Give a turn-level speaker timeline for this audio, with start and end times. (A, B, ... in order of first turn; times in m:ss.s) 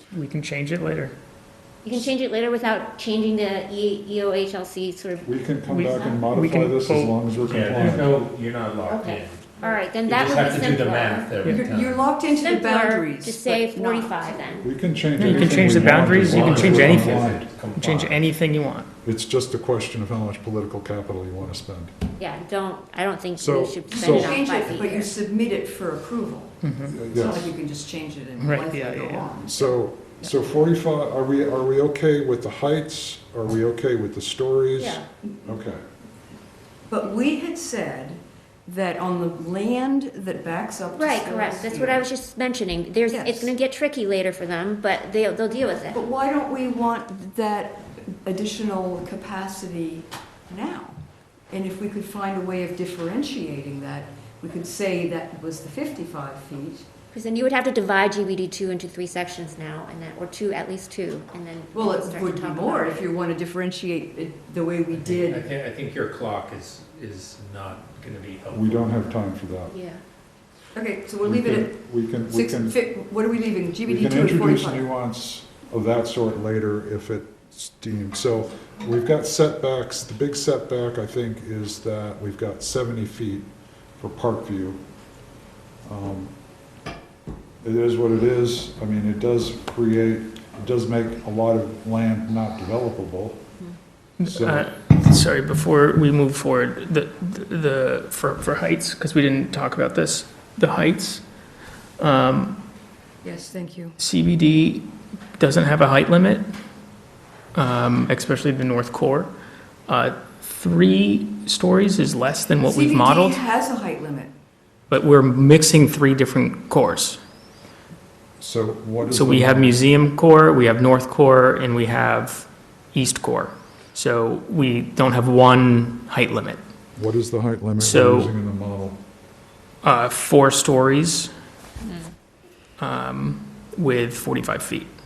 0:00.1-0:01.2 A
0:01.8-0:05.4 B
0:05.2-0:08.2 C
0:05.7-0:08.0 A
0:07.5-0:09.5 D
0:08.9-0:11.3 B
0:10.0-0:12.1 D
0:11.4-0:14.5 E
0:12.3-0:14.7 B
0:14.6-0:17.5 C
0:15.2-0:17.2 A
0:15.4-0:18.2 D
0:17.8-0:18.9 A
0:19.0-0:21.9 C
0:22.2-0:25.1 B
0:23.4-0:24.4 C
0:23.9-0:30.4 E
0:26.6-0:27.0 A
0:26.9-0:27.6 C
0:28.4-0:29.3 A
0:29.4-0:35.8 C
0:34.8-0:35.0 B
0:36.9-0:42.1 E
0:41.0-0:46.0 B
0:43.1-0:43.5 E
0:45.9-0:51.0 E
0:51.5-0:56.9 E
0:57.1-1:03.1 B
1:01.7-1:05.4 E
1:04.9-1:09.2 D
1:08.5-1:09.7 C
1:09.7-1:10.0 B
1:10.7-1:14.8 E
1:11.2-1:12.8 C
1:13.9-1:24.8 C
1:25.8-1:26.3 C
1:27.6-1:33.4 C
1:34.2-1:41.2 A
1:34.2-1:34.7 C
1:42.0-1:42.6 A
1:43.2-1:44.0 E
1:44.0-1:46.5 A
1:47.6-1:49.3 A
1:49.9-1:53.4 A
1:52.6-1:54.3 E
1:54.9-1:57.2 A
1:58.4-1:59.9 C
1:59.0-2:06.6 A
2:07.0-2:09.0 C
2:07.8-2:08.3 A
2:09.8-2:11.3 A
2:12.8-2:14.9 A